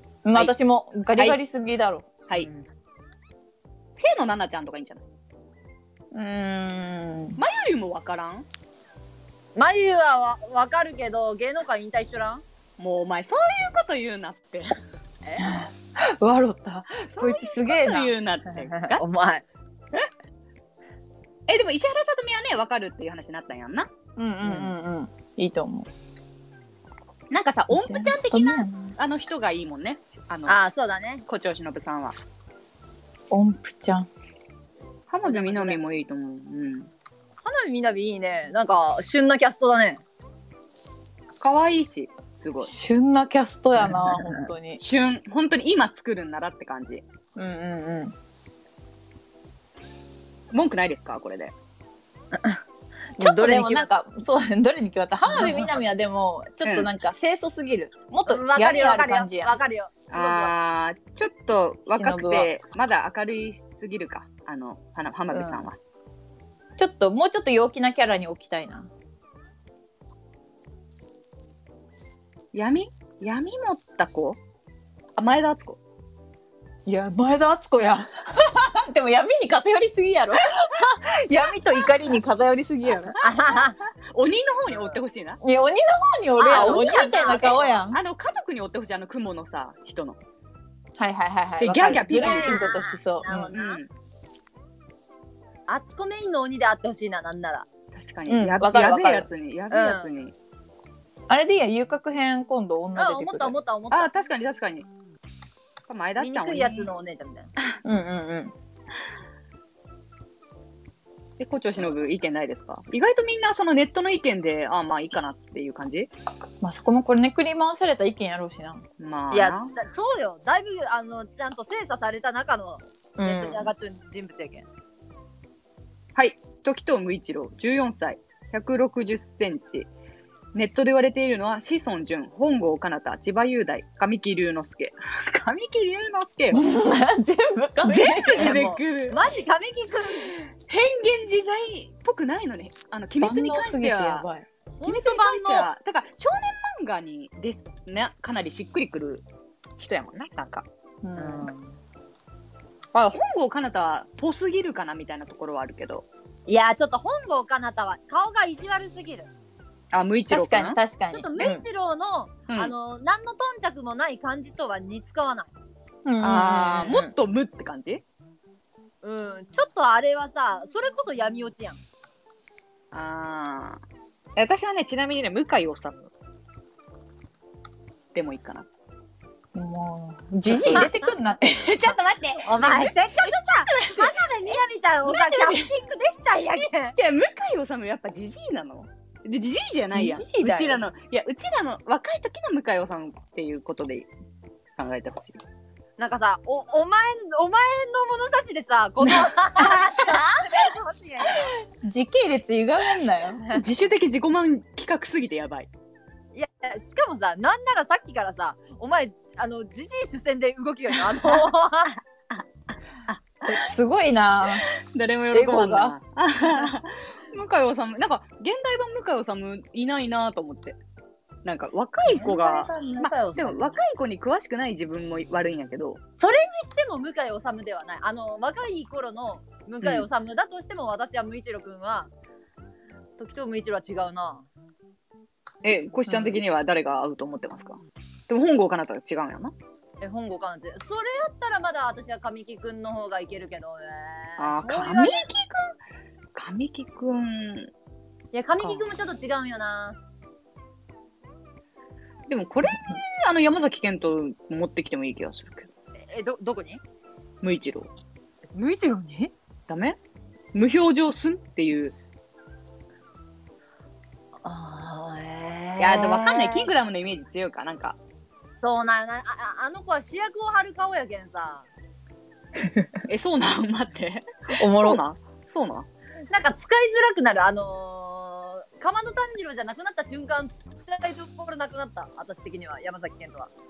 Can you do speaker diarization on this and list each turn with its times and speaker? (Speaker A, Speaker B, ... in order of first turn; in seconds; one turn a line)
Speaker A: 0.3-2.1
Speaker B: 2.4-2.7
Speaker C: 4.0-5.0
Speaker A: 6.1-7.4
Speaker C: 7.4-8.5
Speaker B: 9.6-12.4
Speaker C: 12.8-14.8
Speaker A: 15.4-18.1
Speaker C: 17.1-19.0
Speaker B: 18.5-19.4
Speaker C: 21.5-23.9
Speaker A: 24.2-25.9
Speaker B: 24.4-24.7
Speaker C: 27.3-30.6
Speaker A: 27.7-28.9
Speaker B: 30.5-31.2
Speaker C: 31.3-32.2
Speaker A: 33.3-34.1
Speaker C: 35.1-36.9
Speaker B: 35.2-35.8
Speaker B: 37.4-40.0
Speaker C: 41.4-42.7
Speaker A: 42.6-44.8
Speaker C: 44.8-47.0
Speaker A: 47.4-48.1
Speaker C: 50.5-51.5
Speaker B: 52.3-52.6
Speaker B: 53.2-53.9
Speaker A: 53.2-59.6
Speaker B: 55.3-55.7
Speaker C: 56.6-56.9
Speaker B: 58.3-60.5
Speaker C: 60.1-65.8
Speaker A: 61.9-62.5
Speaker A: 65.3-65.6
Speaker A: 66.8-68.9
Speaker C: 72.5-74.4
Speaker C: 75.2-75.8
Speaker A: 76.9-83.2
Speaker B: 83.2-83.8
Speaker C: 84.0-85.4
Speaker A: 85.4-88.0
Speaker B: 86.4-87.8
Speaker C: 86.5-90.2
Speaker A: 91.0-93.5
Speaker C: 91.6-92.7
Speaker B: 92.1-93.8
Speaker C: 93.5-93.9
Speaker B: 95.7-97.7
Speaker C: 97.9-100.3
Speaker A: 98.3-99.3
Speaker B: 99.7-100.1
Speaker A: 101.3-103.5
Speaker B: 103.0-104.1
Speaker C: 103.9-104.9
Speaker C: 105.9-106.9
Speaker B: 106.2-107.5
Speaker A: 107.8-108.5
Speaker C: 111.4-116.1
Speaker A: 116.6-118.8
Speaker C: 119.0-119.8
Speaker B: 119.3-124.7
Speaker A: 123.2-123.7
Speaker C: 126.2-129.9
Speaker C: 130.5-136.6
Speaker A: 136.5-138.7
Speaker C: 137.9-139.2
Speaker B: 138.4-140.4
Speaker C: 140.5-144.3
Speaker A: 143.2-144.5
Speaker B: 144.8-145.7
Speaker C: 144.8-149.2
Speaker C: 149.8-150.7
Speaker A: 151.0-151.5
Speaker B: 151.2-151.8
Speaker C: 152.9-156.1
Speaker B: 156.5-159.3
Speaker C: 159.9-160.8
Speaker A: 160.3-161.6
Speaker B: 161.1-165.5
Speaker A: 166.1-167.1
Speaker C: 166.2-168.0
Speaker B: 169.0-171.8
Speaker C: 172.9-173.8
Speaker C: 174.4-176.1
Speaker C: 178.1-178.7
Speaker A: 179.6-182.0
Speaker C: 180.5-180.9
Speaker C: 181.6-184.3
Speaker B: 182.4-187.0
Speaker C: 185.1-185.7
Speaker C: 186.9-194.1
Speaker A: 189.9-190.8
Speaker C: 194.8-195.4
Speaker B: 196.0-201.5
Speaker C: 199.1-200.0
Speaker A: 201.3-203.4
Speaker C: 203.5-205.7
Speaker B: 206.3-212.0
Speaker C: 213.1-213.6
Speaker A: 213.5-214.7
Speaker C: 214.6-220.8
Speaker A: 215.3-216.0
Speaker C: 221.4-226.0
Speaker B: 222.1-223.8
Speaker B: 226.2-232.1
Speaker B: 233.2-234.5
Speaker C: 235.6-239.5
Speaker B: 240.0-245.3
Speaker C: 244.4-245.8
Speaker C: 246.3-247.7
Speaker B: 248.3-250.0
Speaker C: 252.3-255.7
Speaker B: 256.0-256.8
Speaker C: 257.4-257.9
Speaker B: 258.5-259.3
Speaker C: 259.7-260.0
Speaker C: 260.5-261.9
Speaker B: 264.4-266.7
Speaker C: 265.8-268.0
Speaker B: 268.6-271.7
Speaker C: 273.1-275.9
Speaker A: 274.6-275.0
Speaker B: 276.3-283.5